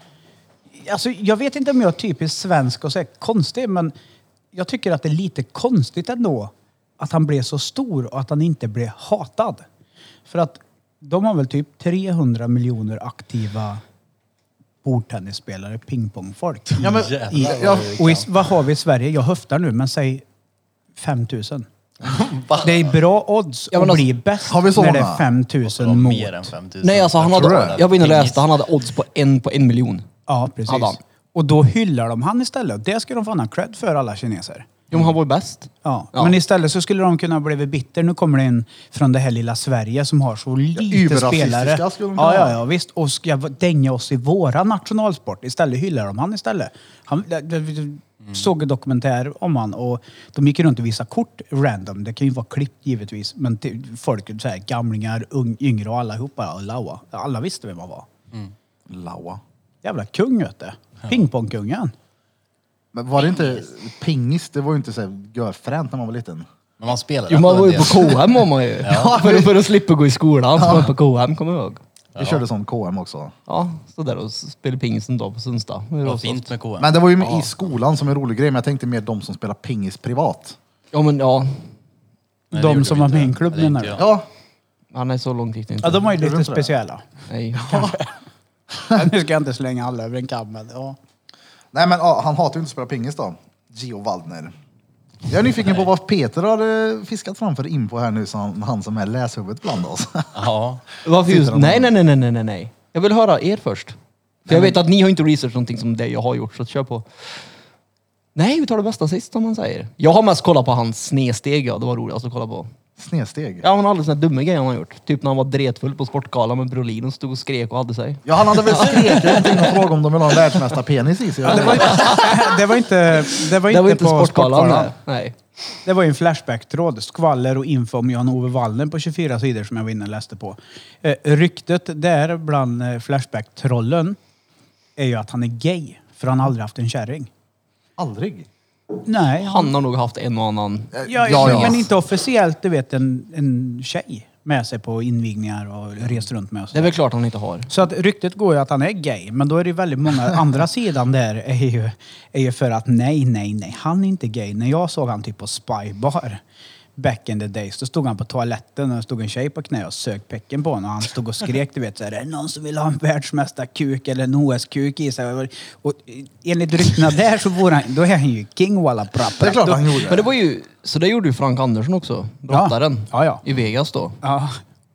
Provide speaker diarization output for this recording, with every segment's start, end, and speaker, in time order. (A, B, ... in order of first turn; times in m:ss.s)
0:00.8-0:03.9 A
0:04.5-0:09.6 A
0:10.3-0:13.8 A
0:14.8-0:20.2 A
0:16.8-0:18.2 B
0:16.8-0:18.3 C
0:21.0-0:21.7 A
0:22.1-0:22.8 C
0:22.6-0:26.5 A
0:23.7-0:24.1 D
0:24.5-0:25.2 B
0:25.7-0:28.4 C
0:26.8-0:30.1 D
0:27.3-0:27.8 B
0:30.3-0:34.7 A
0:30.7-0:31.0 D
0:34.9-0:36.4 D
0:35.8-0:58.1 A
0:40.7-0:42.6 B
0:58.9-0:59.4 B
0:59.8-1:01.9 A
1:02.9-1:06.5 B
1:06.8-1:08.2 C
1:07.3-1:11.8 D
1:08.8-1:09.1 C
1:08.8-1:09.7 B
1:10.6-1:10.9 B
1:12.2-1:12.4 C
1:12.2-1:13.3 B
1:13.5-1:16.5 D
1:16.0-1:17.4 C
1:16.8-1:20.6 B
1:20.9-1:21.7 D
1:22.5-1:24.1 C
1:22.5-1:24.0 A
1:24.0-1:24.3 B
1:24.9-1:26.1 D
1:25.8-1:27.0 A
1:26.1-1:26.7 B
1:27.3-1:27.8 D
1:27.6-1:28.0 B
1:27.7-1:28.1 A
1:28.8-1:29.1 B
1:28.9-1:31.0 A
1:31.7-1:34.5 B
1:35.3-1:40.4 B
1:40.4-1:40.8 C
1:41.0-1:47.3 D
1:41.2-1:41.9 B
1:44.5-1:44.8 B
1:48.4-1:52.7 D
1:53.0-1:53.7 B
1:53.6-1:59.8 D
1:58.3-2:02.2 B
2:01.5-2:04.9 A
2:01.5-2:02.6 D
2:03.2-2:05.4 D
2:05.9-2:14.2 A
2:15.0-2:17.3 A
2:18.0-2:18.5 B
2:19.1-2:19.7 A
2:19.4-2:21.8 D
2:20.9-2:21.9 B
2:21.0-2:27.0 A
2:26.7-2:27.7 D
2:27.7-2:36.4 A
2:37.0-2:50.0 A
2:49.4-2:50.3 B
2:50.1-2:54.2 D
2:52.5-2:53.4 A
2:54.2-2:54.6 A